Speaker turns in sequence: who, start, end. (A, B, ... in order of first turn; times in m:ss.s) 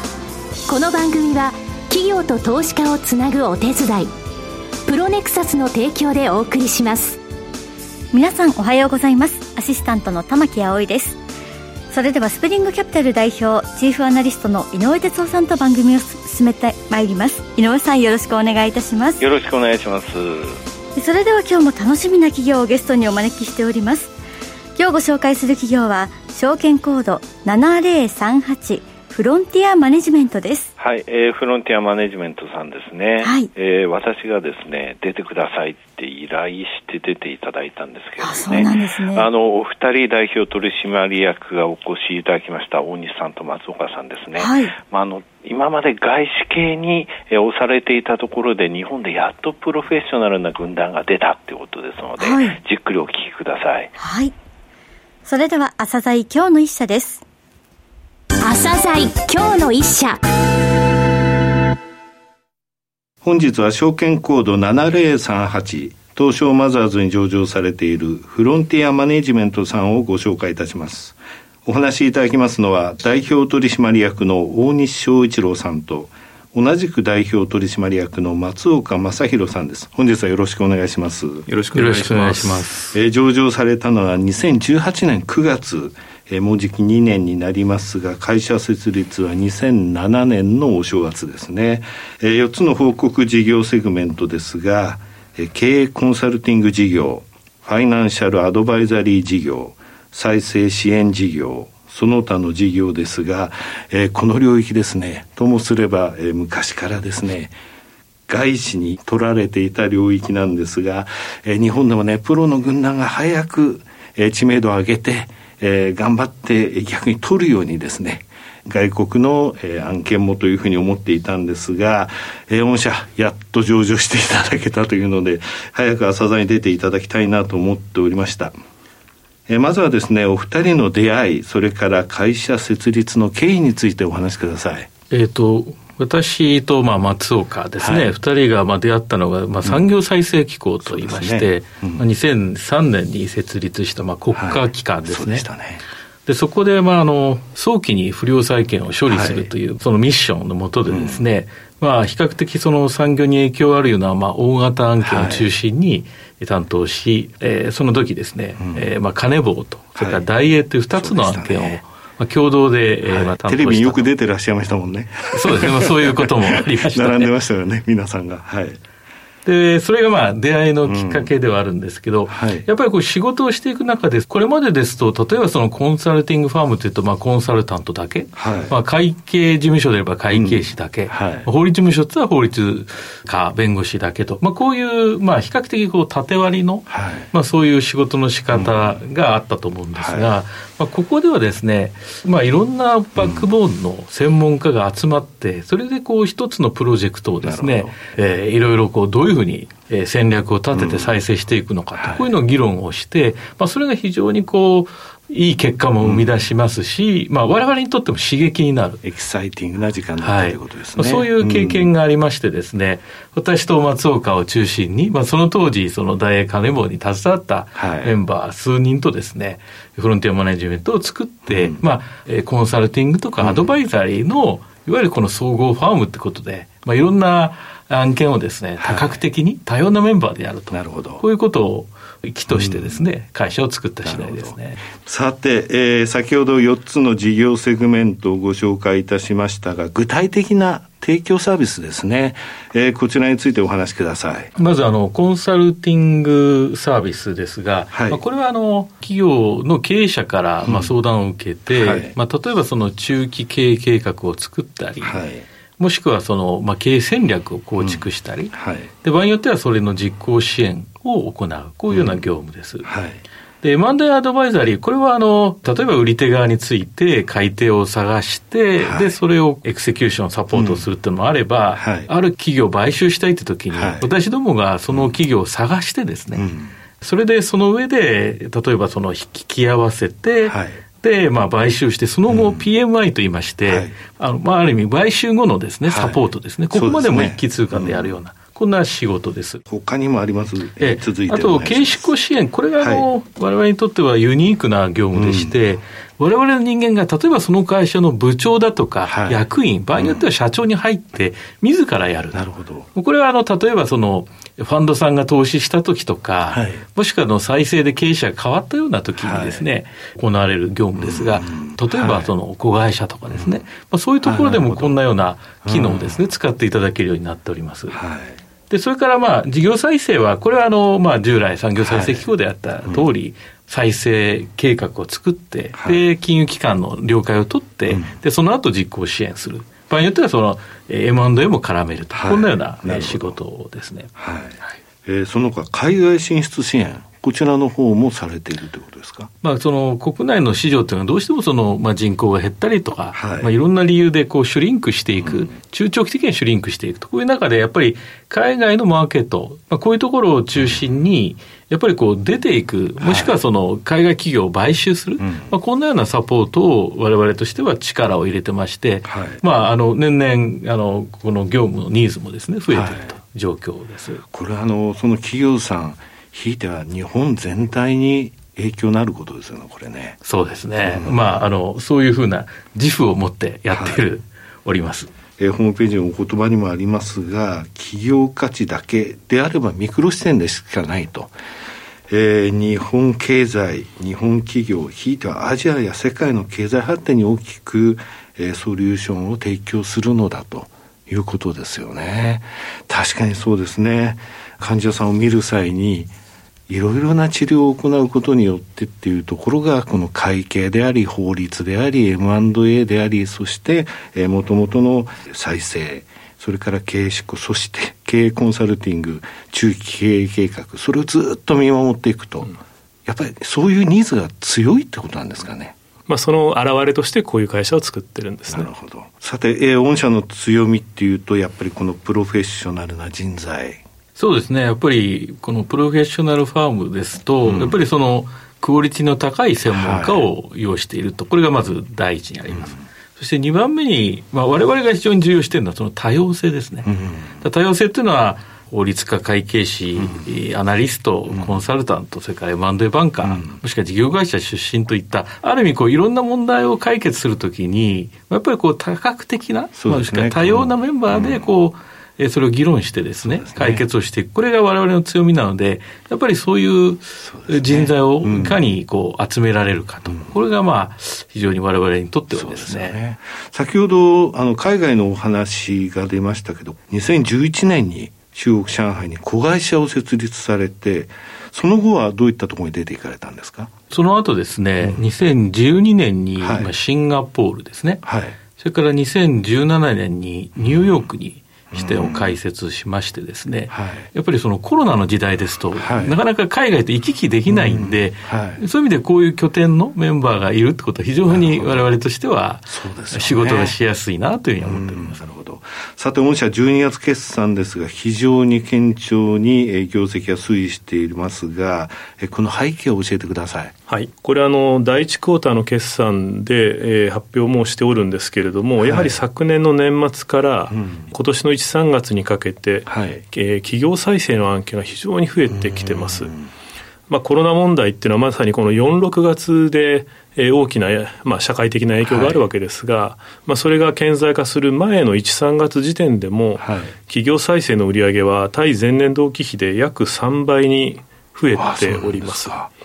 0:00.7-0:04.1 A
0:04.9-0:07.2 A
0:08.1-0:11.2 B
0:11.9-0:19.3 B
0:19.2-0:20.6 C
0:21.0-0:24.1 B
0:24.8-0:30.7 B
0:30.8-0:53.9 C
0:33.2-0:33.5 B
0:38.2-0:39.3 B
0:44.4-0:44.8 B
0:52.2-0:52.6 B
0:54.0-0:54.3 B
0:55.3-0:57.2 B
0:58.4-1:00.2 A
1:03.2-1:21.5 D
1:21.5-1:22.6 E
1:21.7-1:23.0 F
1:22.9-1:47.6 D
1:48.3-2:08.6 D
2:09.5-2:14.9 D
2:15.1-2:25.5 F
2:17.8-2:18.2 D
2:20.9-2:22.1 D
2:24.4-2:25.8 D
2:26.3-2:44.1 F
2:29.1-2:29.5 D
2:30.9-2:31.2 D
2:35.0-2:35.5 D
2:38.6-2:38.9 D
2:40.0-2:40.3 D
2:40.9-2:41.8 D
2:43.1-2:48.8 D
2:45.3-2:47.3 F
2:49.4-3:29.0 F
2:50.8-2:51.3 D
2:52.3-2:52.7 D
2:58.4-2:58.7 D
3:00.3-3:01.5 D
3:06.9-3:07.3 D
3:08.5-3:09.0 D
3:10.0-3:10.3 D
3:13.2-3:13.5 D
3:17.4-3:18.0 D
3:20.7-3:21.2 D
3:22.0-3:22.3 D
3:26.0-3:26.3 D
3:29.0-3:31.9 D
3:30.2-3:54.8 F
3:37.8-3:38.2 D
3:41.5-3:41.8 D
3:43.4-3:43.7 D
3:48.8-3:49.2 D
3:50.7-3:51.2 D
3:52.5-3:53.1 D
3:54.0-4:04.5 D
4:04.6-4:15.2 F
4:07.9-4:08.2 D
4:10.6-4:10.9 D
4:11.7-4:12.2 D
4:15.0-4:15.5 D
4:15.8-4:22.9 F
4:17.8-4:18.9 D
4:21.9-4:22.3 D
4:22.8-4:23.2 D
4:23.6-4:36.4 F
4:28.8-4:29.2 D
4:30.5-4:30.9 D
4:31.7-4:32.1 D
4:33.7-4:34.1 D
4:34.9-4:35.2 D
4:36.3-4:36.7 D
4:37.0-4:49.6 F
4:40.4-4:40.8 D
4:42.3-4:42.7 D
4:43.7-4:44.0 D
4:45.9-4:48.2 D
4:49.7-4:52.1 D
4:50.8-5:18.0 F
4:52.8-4:53.1 D
4:55.1-4:55.6 D
4:59.0-5:00.2 D
5:02.3-5:02.9 D
5:06.5-5:06.8 D
5:09.2-5:09.7 D
5:11.0-5:12.3 D
5:13.3-5:13.6 D
5:14.2-5:15.0 D
5:15.6-5:16.2 D
5:17.9-5:18.4 D
5:18.7-5:34.1 F
5:21.8-5:22.3 D
5:27.9-5:28.1 D
5:32.1-5:33.4 D
5:34.2-5:39.3 D
5:39.4-6:04.2 F
5:43.1-5:43.5 D
5:45.2-5:45.5 D
5:50.6-5:50.8 D
5:53.0-5:53.4 D
5:55.2-5:55.5 D
5:59.0-5:59.4 D
6:02.7-6:03.1 D
6:04.3-6:10.2 D
6:10.2-6:15.1 F
6:10.8-6:11.4 D
6:13.7-6:14.1 D
6:15.4-6:21.4 D
6:22.1-6:36.1 D
6:36.7-6:55.8 D
6:56.1-6:58.7 E
6:58.5-7:03.8 D
7:04.2-7:43.0 F
7:07.4-7:07.8 D
7:09.7-7:10.3 D
7:12.5-7:12.8 D
7:16.9-7:17.4 D
7:21.3-7:21.6 D
7:23.2-7:23.6 D
7:29.8-7:31.5 D
7:33.2-7:33.9 D
7:37.2-7:38.6 D
7:40.1-7:40.3 D
7:42.3-7:53.7 D
7:53.9-7:58.0 F
7:56.4-7:56.7 D
7:58.0-7:58.4 D
7:58.6-8:15.2 F
8:00.6-8:01.1 D
8:01.7-8:02.4 D
8:03.7-8:04.1 D
8:05.8-8:06.2 D
8:07.5-8:08.6 D
8:11.3-8:11.9 D
8:12.7-8:13.8 D
8:14.6-8:23.8 D
8:23.9-8:36.3 E
8:28.8-8:29.2 D
8:30.7-8:31.1 D
8:32.9-8:33.2 D
8:35.5-8:36.5 D
8:37.1-8:52.6 E
8:42.0-8:42.5 D
8:46.6-8:46.9 D
8:51.5-8:52.7 D